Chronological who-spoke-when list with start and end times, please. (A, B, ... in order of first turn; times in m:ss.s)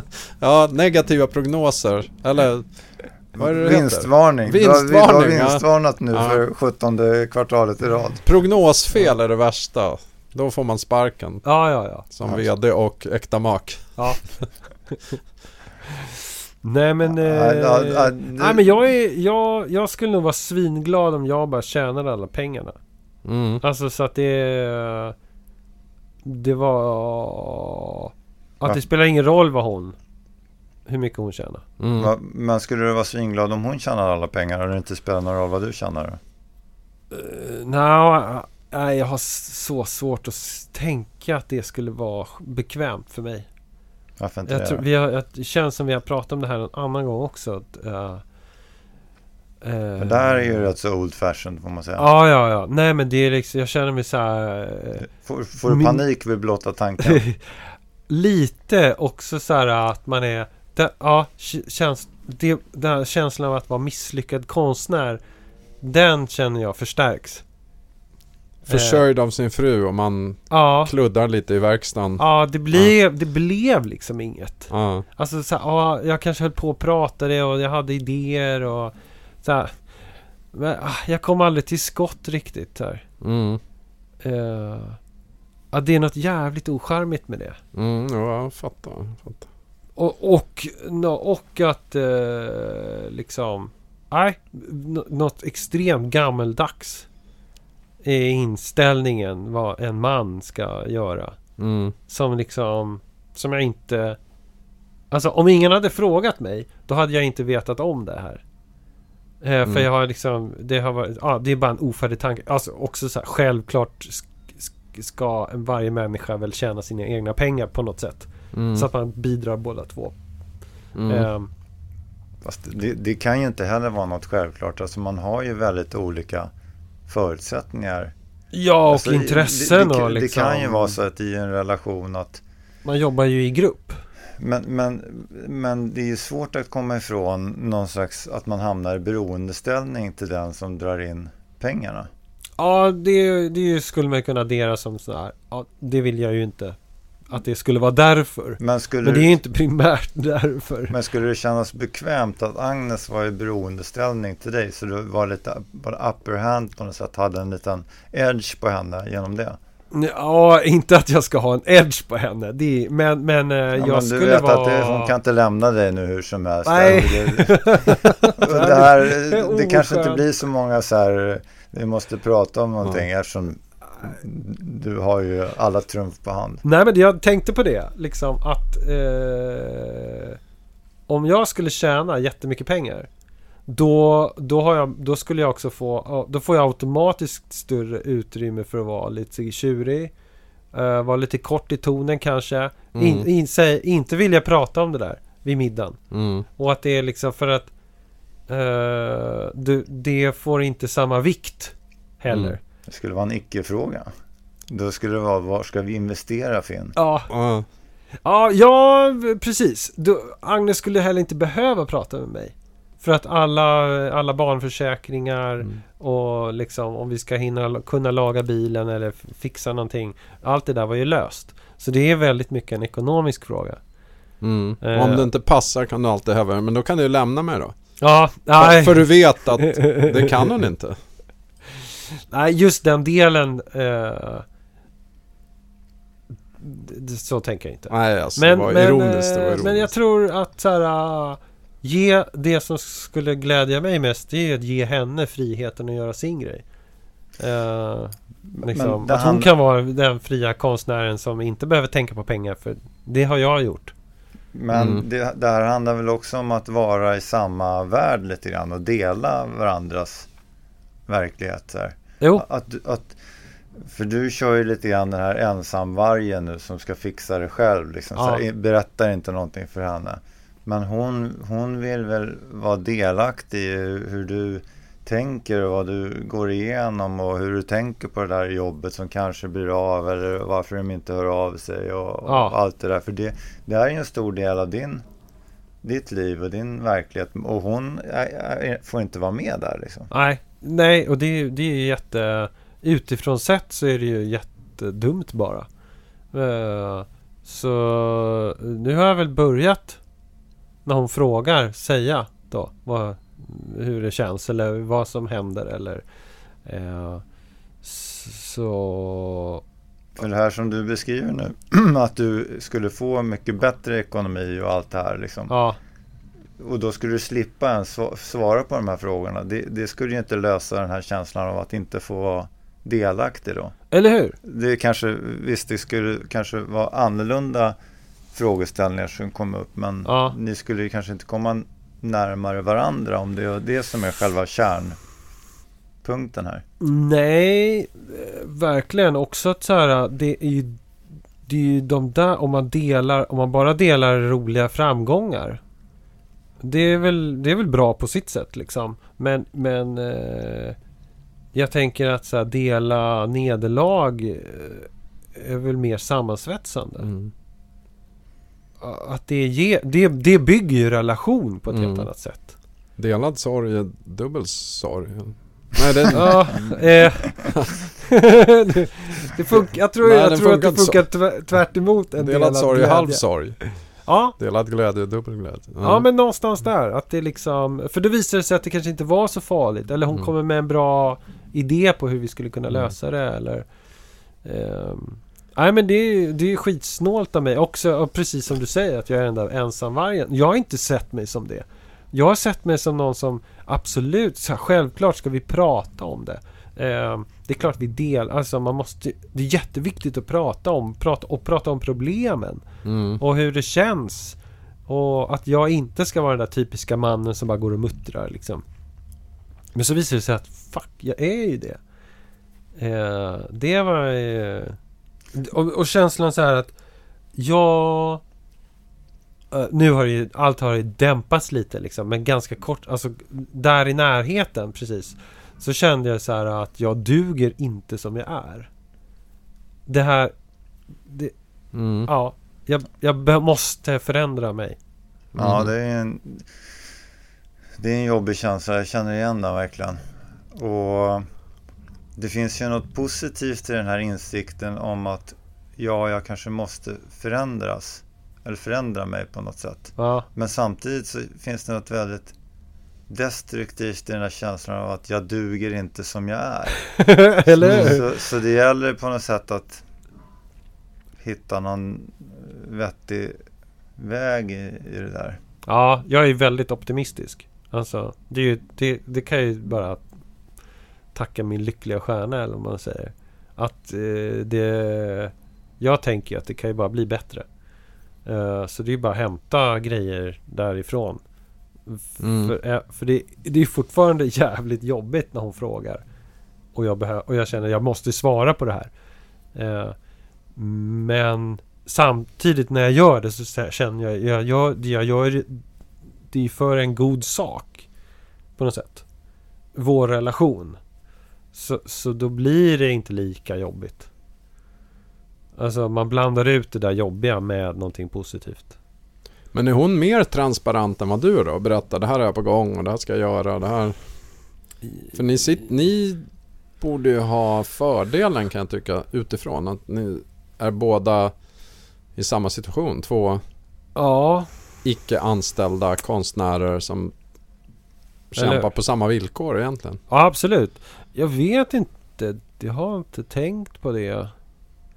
0:00.4-0:02.7 A
0:03.3-0:06.4 A
0:03.4-0:08.2 B
0:08.2-0:11.4 A
0:11.4-0:12.0 C
0:12.1-0:14.0 A
0:14.0-0:14.2 C
0:14.9-0:15.2 C
0:15.9-0:22.8 C
0:17.0-0:18.8 B
0:23.2-0:23.6 A
0:23.6-0:25.1 C
0:26.2-0:29.9 C
0:30.9-0:31.6 C
0:31.8-0:32.1 A
0:32.0-0:36.2 B
0:37.1-0:43.5 C
0:44.2-0:44.8 B
0:44.4-0:48.2 C
0:49.6-0:50.5 C
0:50.0-0:52.0 B
0:52.0-0:55.1 C
0:55.1-0:57.2 B
0:55.7-0:56.0 C
0:57.0-0:57.6 C
0:58.1-1:05.2 C
1:05.8-1:07.4 C
1:08.7-1:12.9 A
1:08.7-1:09.0 C
1:10.5-1:10.9 C
1:12.2-1:19.8 C
1:14.7-1:15.0 A
1:20.5-1:23.0 C
1:23.2-1:23.6 A
1:24.2-1:25.0 C
1:25.7-1:27.6 C
1:27.7-1:29.5 A
1:30.0-1:37.1 C
1:38.0-1:41.4 C
1:41.6-1:42.0 A
1:42.1-1:44.2 C
1:45.1-1:48.4 C
1:49.4-2:00.2 C
1:58.5-1:58.9 A
2:01.0-2:01.3 A
2:01.1-2:01.5 C
2:02.4-2:06.5 B
2:07.1-2:08.1 B
2:08.5-2:11.0 C
2:08.9-2:12.4 B
2:12.8-2:14.0 C
2:14.4-2:22.1 B
2:22.6-2:26.8 C
2:27.3-2:30.9 C
2:28.6-2:29.4 B
2:30.9-2:39.6 B
2:39.9-2:45.1 C
2:43.8-2:56.6 B
2:46.6-2:50.3 C
2:56.6-3:00.4 C
3:01.1-3:03.1 C
3:03.7-3:10.1 C
3:10.7-3:16.0 C
3:12.9-3:13.3 A
3:16.1-3:16.4 A
3:16.6-3:17.7 C
3:18.5-3:22.6 C
3:22.9-3:24.1 B
3:24.7-3:26.9 B
3:27.0-3:27.3 C
3:27.3-3:27.6 A
3:28.2-3:43.8 C
3:44.4-3:47.7 A
3:44.8-3:45.3 C
3:48.0-3:50.3 C
3:48.6-3:51.0 A
3:52.3-3:54.4 C
3:56.6-4:06.6 C
3:57.9-3:59.9 A
4:07.4-4:13.9 C
4:08.5-4:09.5 B
4:14.5-4:20.3 B
4:14.7-4:15.0 A
4:21.1-4:23.2 B
4:23.8-4:45.0 B
4:28.2-4:28.4 C
4:42.2-4:42.5 C
4:45.8-4:50.1 B
4:50.1-4:55.7 C
4:56.3-5:00.0 C
5:00.8-5:06.0 C
5:06.6-5:07.2 C
5:07.8-5:09.6 C
5:10.2-5:15.5 B
5:15.5-5:15.8 C
5:16.6-5:23.7 B
5:23.9-5:24.4 C
5:24.4-5:27.8 B
5:28.3-5:35.0 B
5:30.0-5:30.4 C
5:36.0-5:36.6 B
5:36.8-5:40.8 C
5:41.4-5:45.6 C
5:46.6-5:50.8 C
5:51.5-5:57.1 C
5:57.0-5:57.3 A
5:58.8-6:02.5 C
6:01.7-6:02.1 A
6:03.0-6:06.7 A
6:06.1-6:13.2 C
6:10.0-6:11.0 A
6:12.2-6:13.6 A
6:14.0-6:14.4 C
6:14.4-6:16.0 A
6:15.8-6:23.7 C
6:24.4-6:42.6 C
6:42.8-6:43.2 A
6:43.2-6:48.6 C
6:49.7-6:51.8 C
6:52.8-6:54.8 C
6:55.3-6:56.7 C
6:57.3-6:58.2 C
6:59.5-7:08.7 C
7:09.9-7:10.3 C
7:11.0-7:11.3 C
7:11.7-7:12.1 A
7:12.0-7:14.8 C
7:15.3-7:15.7 A
7:15.4-7:16.5 B
7:17.8-7:20.0 B
7:20.5-7:21.2 B
7:22.2-7:32.3 B
7:30.0-7:30.3 C
7:33.1-7:36.8 B
7:36.8-7:38.0 C
7:37.4-7:39.8 B
7:37.6-7:37.9 A
7:41.2-7:43.4 B
7:44.0-7:45.4 B
7:45.6-7:50.0 C
7:51.1-7:57.4 C
7:58.2-8:01.2 C
8:01.9-8:06.0 C
8:02.2-8:02.5 A
8:06.7-8:08.9 C
8:09.5-8:10.0 C
8:10.6-8:15.6 C
8:16.3-8:17.9 C
8:18.6-8:19.0 C
8:19.7-8:20.8 C
8:21.5-8:24.1 C
8:25.6-8:28.7 C
8:29.5-8:33.9 A
8:35.1-8:36.2 A
8:36.8-8:41.3 A
8:42.2-8:43.4 A
8:44.0-8:44.5 C
8:44.8-8:47.1 A
8:48.3-8:50.0 A
8:48.4-8:48.7 C
8:50.1-8:54.3 C